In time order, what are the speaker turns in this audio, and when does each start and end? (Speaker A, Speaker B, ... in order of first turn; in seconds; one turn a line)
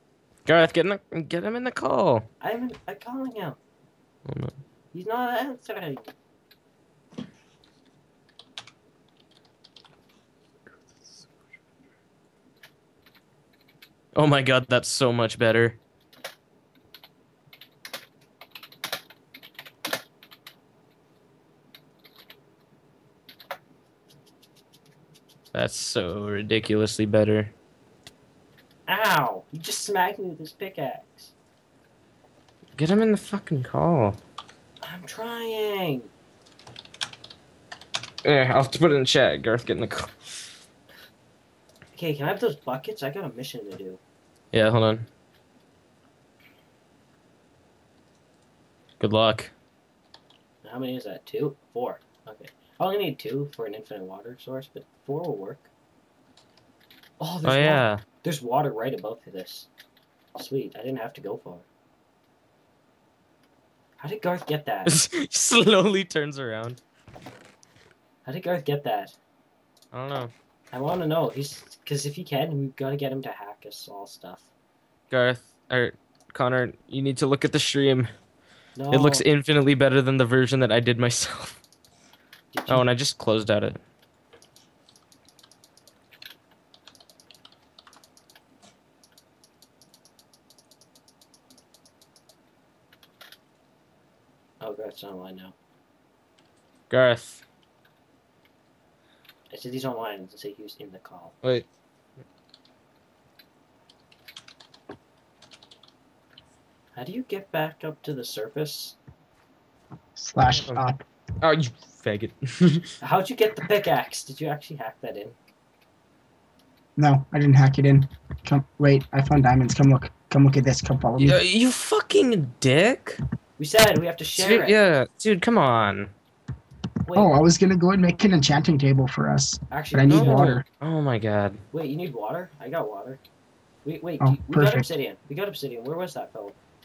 Speaker A: 0.5-2.3
Speaker B: 2.4-3.6
Speaker A: 4.2-4.5
Speaker B: 4.9-6.1
Speaker A: 14.1-15.8
Speaker A: 25.5-27.5
Speaker B: 28.9-31.3
Speaker A: 32.8-34.2
Speaker B: 34.8-36.1
Speaker A: 38.2-40.3
Speaker B: 41.9-44.0
Speaker A: 44.5-45.1
Speaker A: 49.0-49.5
Speaker B: 50.6-55.7
Speaker B: 57.2-59.7
Speaker A: 57.4-58.0
Speaker B: 60.4-61.6
Speaker B: 64.0-65.0
Speaker A: 64.8-66.8
Speaker B: 68.2-69.1
Speaker A: 69.9-70.3
Speaker B: 70.7-74.5
Speaker A: 75.1-78.1
Speaker B: 78.8-79.2
Speaker A: 78.9-81.6
Speaker B: 82.5-82.8
Speaker A: 82.7-83.8
Speaker B: 94.6-95.5
Speaker A: 96.9-97.4
Speaker B: 99.5-101.3
Speaker B: 106.9-109.0
Speaker C: 110.2-111.0
Speaker A: 110.5-110.8
Speaker A: 111.4-112.9
Speaker B: 113.0-115.3
Speaker C: 117.0-121.4
Speaker A: 121.2-123.2
Speaker B: 123.6-124.7
Speaker A: 124.4-126.1
Speaker B: 127.0-127.3
Speaker C: 127.1-130.6
Speaker B: 129.7-130.6
Speaker A: 130.1-131.6
Speaker B: 131.7-133.2
Speaker B: 133.8-136.6
Speaker C: 134.2-134.9